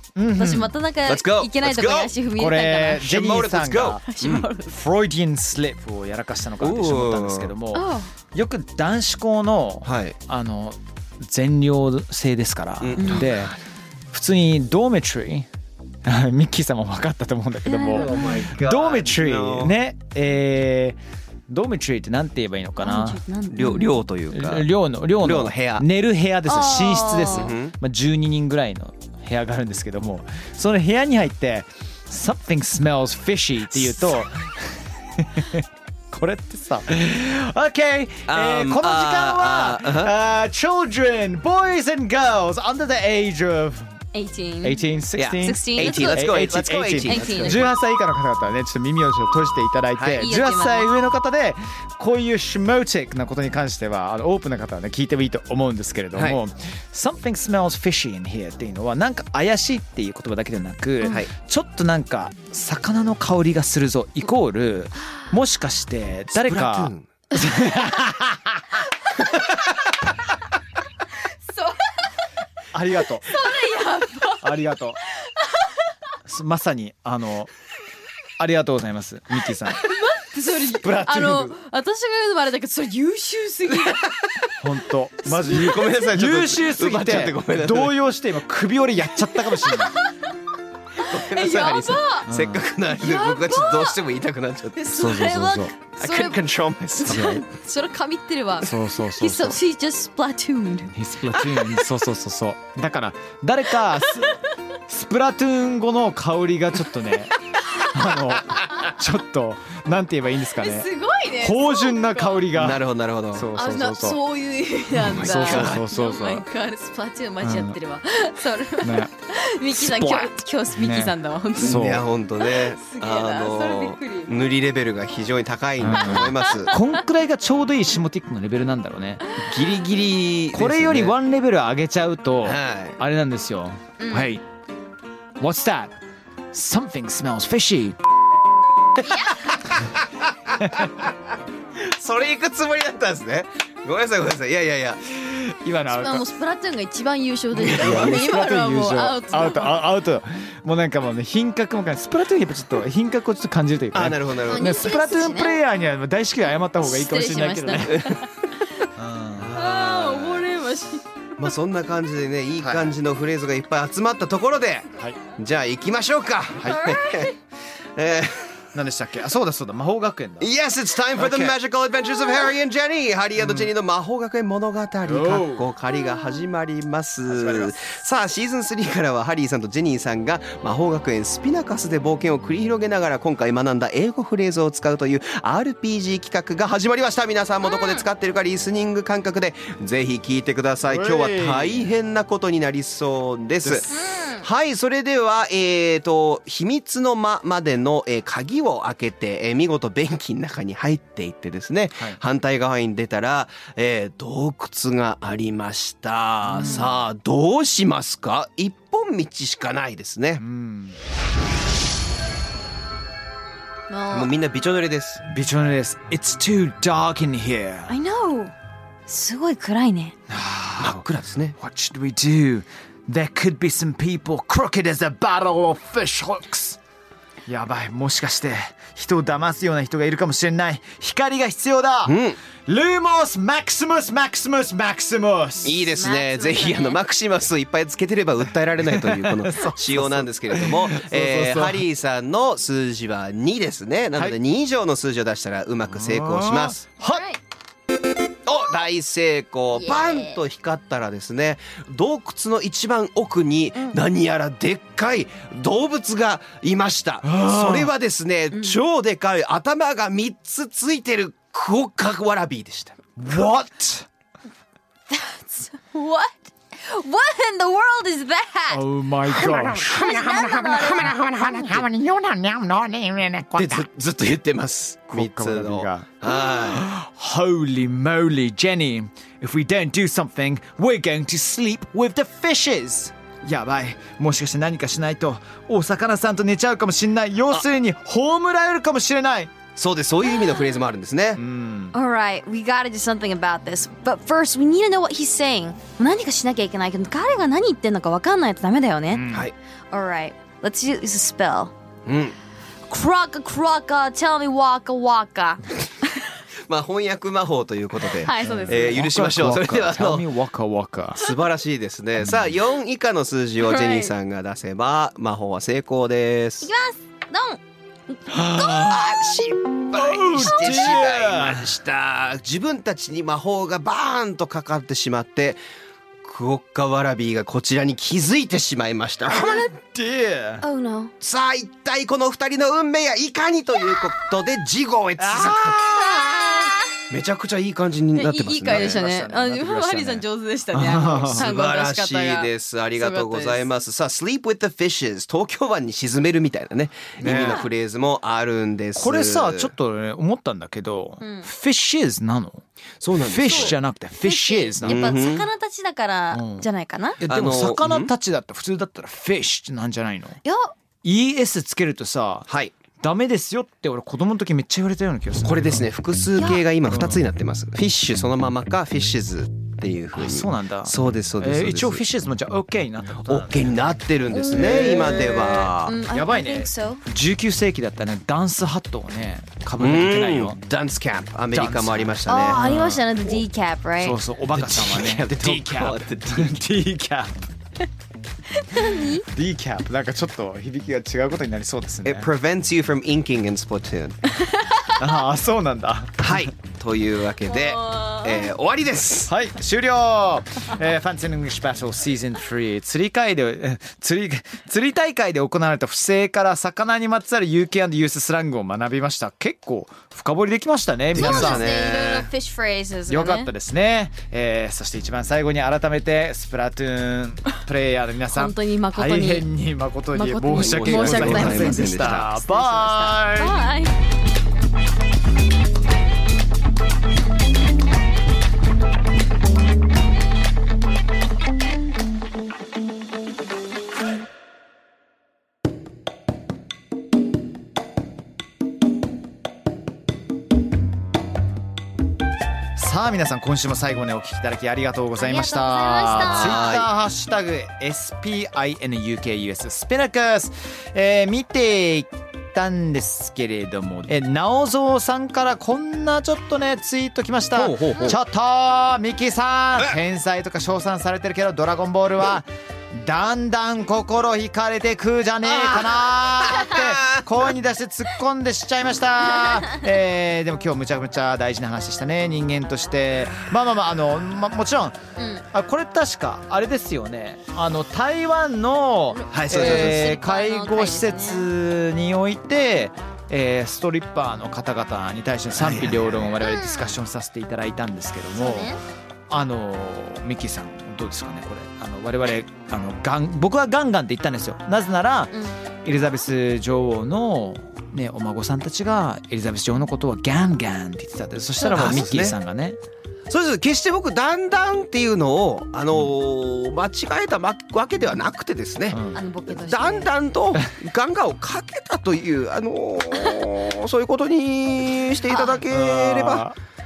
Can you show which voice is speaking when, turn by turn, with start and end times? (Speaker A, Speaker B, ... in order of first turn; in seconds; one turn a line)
Speaker A: 0.2-0.8
Speaker B: 0.4-3.1
Speaker C: 1.1-2.1
Speaker A: 2.4-4.0
Speaker C: 3.0-4.5
Speaker B: 4.0-4.8
Speaker A: 4.7-13.6
Speaker C: 6.6-7.5
Speaker B: 7.7-8.1
Speaker C: 9.8-10.2
Speaker C: 12.8-13.5
Speaker B: 13.0-13.3
Speaker A: 14.1-15.5
Speaker A: 16.1-23.2
Speaker B: 17.7-18.1
Speaker C: 17.9-19.8
Speaker B: 22.8-24.0
Speaker C: 23.5-25.8
Speaker A: 24.3-44.0
Speaker B: 26.5-27.5
Speaker C: 27.2-27.7
Speaker C: 38.3-40.1
Speaker B: 44.1-44.9
Speaker A: 44.6-68.6
Speaker C: 45.2-47.7
Speaker B: 45.4-46.3
Speaker B: 47.0-47.7
Speaker C: 50.0-50.3
Speaker B: 50.2-51.0
Speaker C: 56.1-56.4
Speaker C: 66.3-67.1
Speaker B: 71.5-71.9
Speaker A: 72.7-73.4
Speaker B: 73.3-74.5
Speaker A: 74.4-75.0
Speaker A: 76.3-77.5
Speaker A: 78.4-79.8
Speaker B: 79.7-84.1
Speaker A: 80.7-81.6
Speaker A: 84.6-90.0
Speaker B: 85.2-86.0
Speaker C: 85.5-88.0
Speaker B: 89.7-90.1
Speaker C: 91.0-95.1
Speaker B: 91.1-92.3
Speaker A: 92.3-92.7
Speaker B: 92.9-94.0
Speaker B: 94.8-96.4
Speaker A: 95.0-95.7
Speaker C: 96.0-97.2
Speaker B: 97.0-100.9
Speaker A: 97.0-97.4
Speaker A: 98.6-99.6
Speaker A: 100.9-110.9
Speaker B: 110.5-112.5
Speaker A: 111.4-114.2
Speaker C: 112.5-113.5
Speaker B: 113.5-121.8
Speaker C: 115.0-115.8
Speaker A: 115.0-116.5
Speaker A: 117.4-117.8
Speaker A: 118.8-119.1
Speaker A: 119.7-122.1
Speaker C: 121.6-126.8
Speaker B: 122.4-124.4
Speaker A: 125.8-129.8
Speaker B: 126.1-126.5
Speaker C: 129.4-131.2
Speaker A: 130.5-134.4
Speaker C: 132.4-133.0
Speaker B: 134.0-134.4
Speaker A: 135.4-135.9
Speaker A: 136.5-138.0
Speaker B: 139.0-139.4
Speaker A: 140.6-140.9
Speaker C: 141.8-145.1
Speaker A: 145.2-146.2
Speaker B: 145.9-149.8
Speaker C: 147.5-148.2
Speaker A: 147.6-158.1
Speaker C: 153.9-154.9
Speaker B: 154.5-155.6
Speaker B: 156.8-158.8
Speaker A: 159.0-159.5
Speaker C: 159.4-160.5
Speaker B: 159.5-161.0
Speaker C: 161.4-167.3
Speaker A: 162.6-162.9
Speaker B: 166.6-167.3
Speaker C: 168.0-168.6
Speaker A: 168.8-170.5
Speaker C: 170.4-193.9
Speaker A: 171.2-171.6
Speaker A: 173.4-173.7
Speaker A: 175.1-175.7
Speaker A: 177.3-177.8
Speaker B: 187.6-188.1
Speaker A: 190.8-191.9
Speaker A: 193.6-194.0
Speaker B: 193.9-194.4
Speaker C: 194.4-210.4
Speaker A: 206.5-206.9
Speaker B: 206.6-206.9
Speaker A: 210.4-211.0
Speaker B: 213.9-214.3
Speaker C: 214.1-215.2
Speaker A: 215.3-217.9
Speaker B: 217.9-218.5
Speaker B: 219.1-220.1
Speaker A: 220.3-221.0
Speaker C: 220.8-221.6
Speaker A: 221.6-226.8
Speaker A: 227.5-235.8
Speaker C: 232.1-232.4
Speaker C: 235.6-246.8
Speaker B: 235.9-237.0
Speaker A: 238.9-241.8
Speaker A: 245.9-247.2
Speaker B: 247.0-247.4
Speaker C: 248.5-263.0
Speaker B: 249.7-250.4
Speaker A: 257.2-257.9
Speaker B: 258.5-258.8
Speaker A: 263.2-264.1
Speaker B: 265.1-268.8
Speaker A: 268.7-273.9
Speaker C: 269.3-271.8
Speaker B: 269.8-271.5
Speaker C: 273.6-276.9
Speaker A: 275.1-289.5
Speaker C: 289.8-291.4
Speaker A: 291.4-291.9
Speaker B: 291.9-299.2
Speaker A: 299.1-299.5
Speaker B: 299.9-301.7
Speaker C: 302.1-302.4
Speaker B: 302.9-305.7
Speaker C: 306.7-310.3
Speaker B: 308.1-309.1
Speaker A: 308.4-311.2
Speaker C: 311.2-316.7
Speaker B: 313.6-314.1
Speaker B: 316.6-319.4
Speaker A: 318.3-319.0
Speaker C: 318.8-325.6
Speaker A: 319.9-321.8
Speaker B: 320.4-320.8
Speaker C: 326.2-329.7
Speaker A: 329.3-330.6
Speaker B: 330.6-331.1
Speaker C: 331.2-336.1
Speaker A: 335.2-336.7
Speaker B: 336.2-336.8
Speaker C: 337.1-339.0
Speaker B: 338.2-343.7
Speaker A: 338.7-341.5
Speaker C: 341.3-349.7
Speaker A: 347.2-347.6
Speaker B: 347.2-347.7
Speaker A: 349.0-352.6
Speaker B: 351.2-351.5
Speaker C: 353.0-353.8
Speaker A: 353.2-355.3
Speaker B: 353.5-357.2
Speaker C: 354.8-355.4
Speaker A: 356.3-356.6
Speaker A: 357.2-360.4
Speaker C: 357.3-358.1
Speaker B: 360.4-360.7
Speaker A: 361.0-362.5
Speaker C: 362.5-362.7
Speaker A: 363.0-365.9
Speaker C: 365.4-372.0
Speaker B: 366.4-366.7
Speaker A: 366.9-367.2
Speaker A: 370.2-373.8
Speaker C: 373.3-376.0
Speaker B: 374.3-377.0
Speaker A: 374.6-374.9
Speaker A: 376.1-380.6
Speaker C: 379.8-382.6
Speaker A: 381.5-383.1
Speaker B: 382.3-384.2
Speaker A: 384.0-387.3
Speaker C: 384.5-386.6
Speaker B: 388.6-389.2
Speaker A: 389.3-392.3
Speaker C: 392.1-394.2
Speaker B: 394.6-394.9
Speaker A: 395.0-396.5
Speaker C: 396.2-399.3
Speaker B: 397.4-398.5
Speaker A: 399.2-411.7
Speaker C: 411.1-412.3
Speaker B: 411.1-413.5
Speaker A: 413.1-423.6
Speaker B: 418.3-419.5
Speaker B: 420.1-423.9
Speaker C: 420.5-422.3
Speaker A: 442.8-475.0
Speaker B: 445.1-446.8
Speaker C: 446.2-446.9
Speaker C: 457.6-458.2
Speaker C: 465.5-467.2
Speaker B: 475.2-475.4
Speaker A: 475.5-488.7
Speaker B: 479.1-481.5
Speaker C: 479.3-480.1
Speaker C: 485.5-486.3
Speaker B: 486.4-487.0
Speaker B: 488.3-488.8
Speaker A: 489.3-495.3
Speaker A: 495.9-502.8
Speaker C: 501.6-502.4
Speaker C: 503.3-516.5
Speaker A: 508.9-509.2
Speaker B: 509.2-510.1
Speaker B: 513.1-513.4
Speaker B: 515.3-515.6
Speaker A: 515.7-516.6